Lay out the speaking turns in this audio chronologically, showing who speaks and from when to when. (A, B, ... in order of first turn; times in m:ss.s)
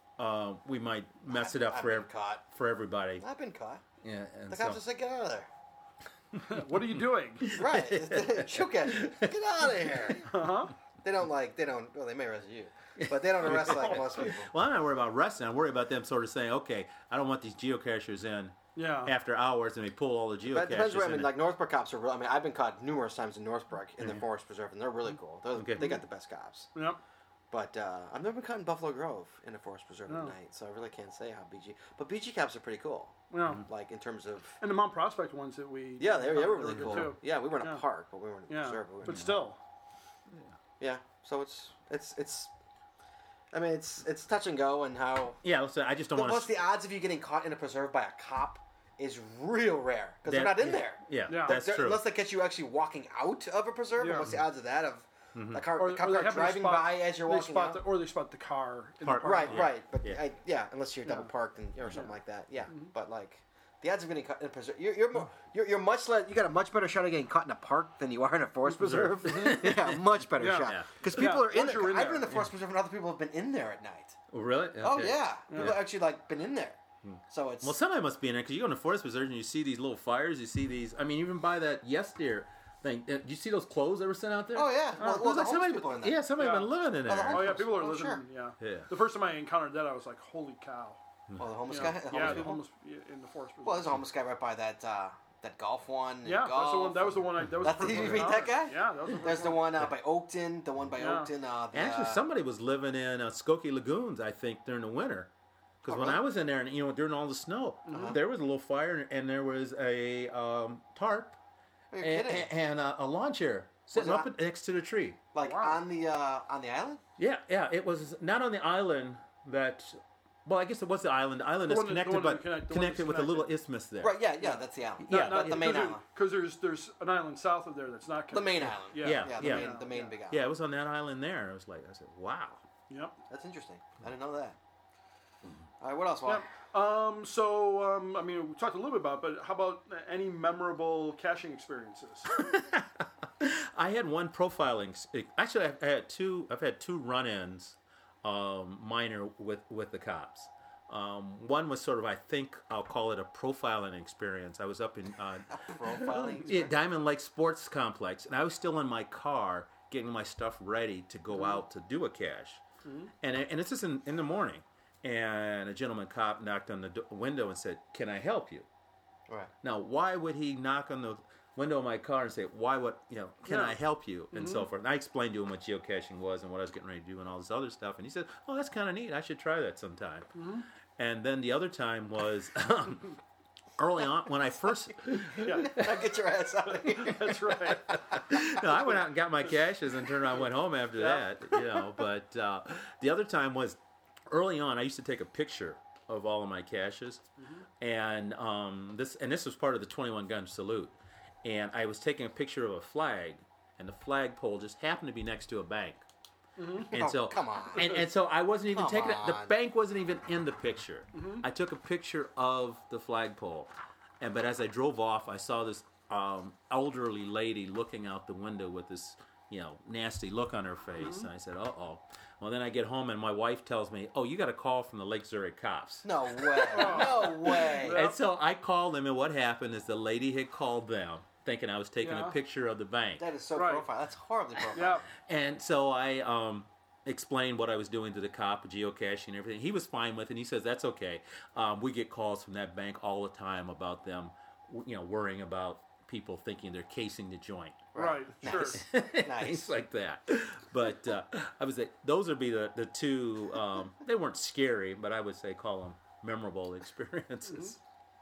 0:00.2-0:03.2 A
0:01.3-0:02.4 B
0:03.2-0:03.8 B
0:04.0-0:04.8 A
0:04.5-0:05.5 B
0:06.5-0:07.5 C
0:07.4-0:10.2 A
0:07.5-0:10.3 B
0:10.3-0:10.7 C
0:11.0-0:14.5 B
0:13.0-0:21.4 A
0:18.7-0:19.1 C
0:20.5-0:26.7 B
0:24.0-0:24.2 A
0:25.5-0:26.0 A
0:27.5-0:34.5 B
0:30.1-0:30.3 C
0:33.3-0:33.6 C
0:34.6-0:37.8 C
0:36.0-0:39.3 B
0:36.7-0:37.1 A
0:38.5-0:39.6 C
0:39.0-0:39.5 A
0:40.3-0:40.5 A
0:40.8-0:42.5 B
0:43.5-0:45.4 B
0:45.4-0:46.5 A
0:46.1-0:57.8 B
0:50.2-0:52.0 A
0:51.3-0:51.6 C
0:54.0-0:54.3 C
0:55.3-0:55.6 A
0:55.8-0:59.7 C
0:59.0-1:00.2 A
0:59.2-1:14.2 B
1:08.7-1:11.3 A
1:09.2-1:09.7 C
1:10.4-1:12.2 C
1:14.3-1:15.8 A
1:14.8-1:17.8 B
1:15.5-1:15.8 C
1:17.0-1:27.7 A
1:24.5-1:26.2 B
1:26.4-1:26.7 C
1:27.0-1:28.2 B
1:27.2-1:31.0 C
1:28.6-1:28.9 A
1:31.3-1:32.5 A
1:31.4-1:32.6 B
1:31.7-1:34.0 C
1:33.6-1:42.2 B
1:36.2-1:39.6 C
1:37.6-1:38.4 A
1:41.0-1:41.3 C
1:41.7-1:45.3 A
1:45.8-1:51.4 A
1:45.9-1:46.2 B
1:47.9-1:48.2 C
1:47.9-1:48.2 B
1:51.9-1:52.5 B
1:52.0-1:55.2 A
1:53.9-1:54.3 B
1:55.3-1:57.0 B
1:55.4-1:55.8 C
1:57.2-2:04.2 A
2:01.7-2:03.5 C
2:04.0-2:06.0 B
2:05.0-2:05.8 A
2:05.1-2:10.1 C
2:08.3-2:10.4 B
2:09.0-2:12.6 A
2:12.9-2:13.2 C
2:13.3-2:14.6 B
2:15.8-2:16.4 B
2:16.2-2:22.3 C
2:22.3-2:42.6 A
2:35.5-2:36.7 B
2:42.8-2:43.1 C
2:43.2-2:48.6 A
2:49.6-3:00.3 A
2:53.5-2:53.8 C
2:54.3-2:54.7 C
3:00.4-3:00.6 C
3:01.0-3:03.1 A
3:03.8-3:05.9 A
3:05.3-3:08.8 B
3:05.4-3:05.8 C
3:06.7-3:08.0 C
3:08.1-3:17.3 A
3:17.4-3:17.6 C
3:17.8-3:26.0 A
3:26.6-3:26.9 C
3:26.9-3:28.0 B
3:26.9-3:47.4 A
3:28.7-3:29.5 B
3:31.1-3:31.4 C
3:41.0-3:41.3 C
3:46.0-3:48.0 B
3:46.7-3:48.2 C
3:47.9-3:53.2 A
3:52.0-3:52.3 C
3:53.2-3:55.0 B
3:53.5-3:53.8 C
3:54.7-3:55.0 C
3:55.2-4:07.9 A
4:07.9-4:09.7 B
4:08.0-4:08.8 C
4:08.4-4:17.8 A
4:17.5-4:17.7 C